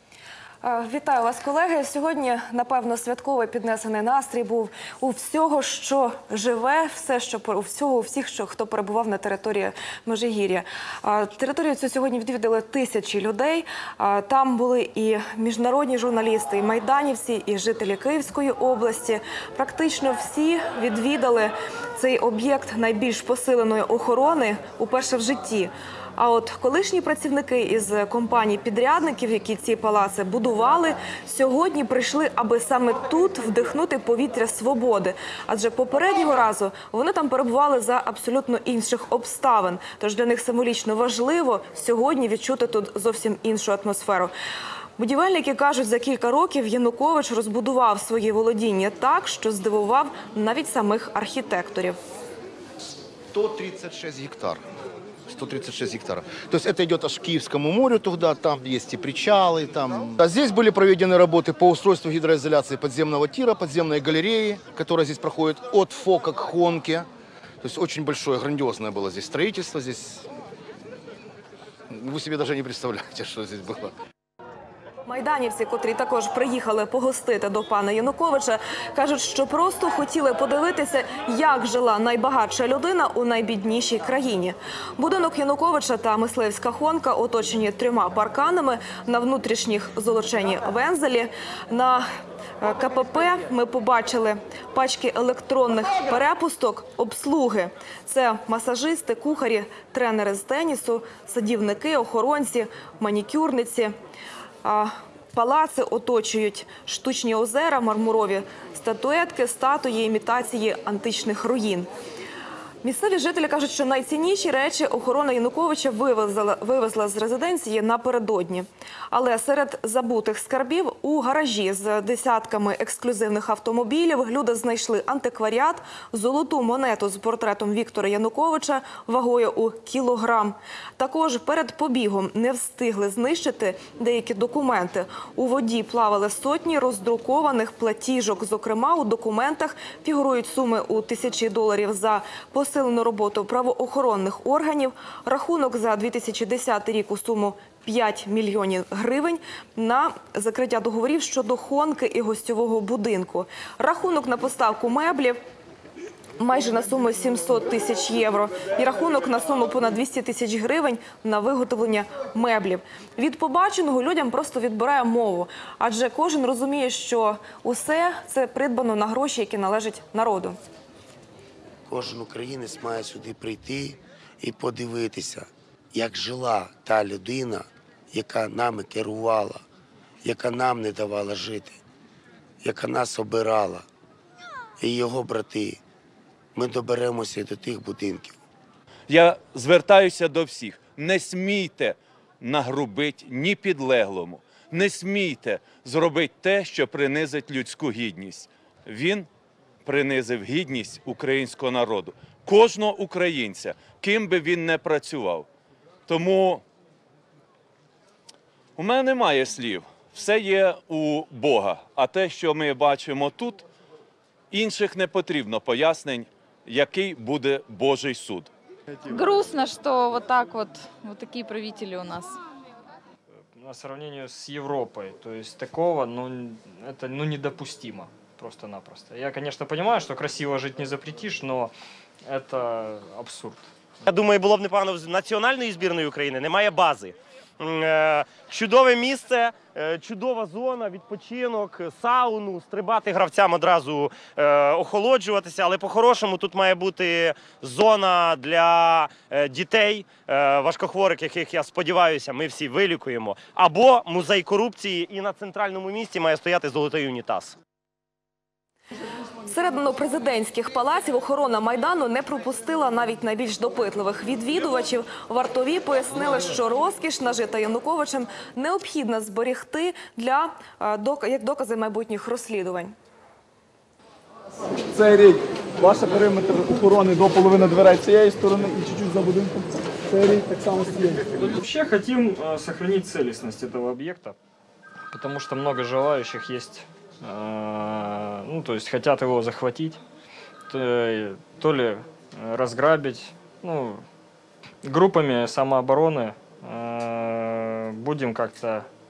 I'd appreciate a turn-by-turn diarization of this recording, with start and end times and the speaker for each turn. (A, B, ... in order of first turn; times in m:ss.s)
0:00.6-0:44.3 A
0:45.0-0:52.0 A
0:53.3-0:54.6 B
0:55.3-1:07.0 B
1:07.6-1:10.2 B
1:11.9-1:13.9 B
1:15.0-1:32.0 A
1:32.6-1:43.9 A
1:44.6-1:51.9 A
1:52.8-2:35.4 A
2:36.4-2:50.6 A
2:51.9-2:59.6 C
3:00.2-3:01.8 C
3:02.6-3:03.8 C
3:04.8-3:05.8 C
3:06.5-3:08.4 C
3:09.1-3:19.3 D
3:19.8-3:25.5 D
3:26.1-3:26.6 D
3:28.8-3:33.6 D
3:34.5-3:38.5 D
3:39.1-3:42.4 E
3:43.6-3:51.7 F
3:52.3-3:53.6 F
3:54.0-4:17.6 G
4:19.5-4:32.9 A
4:34.9-4:41.3 H
4:41.4-4:44.4 F
4:45.1-4:50.0 F
4:50.7-4:54.0 F
4:54.8-4:58.9 F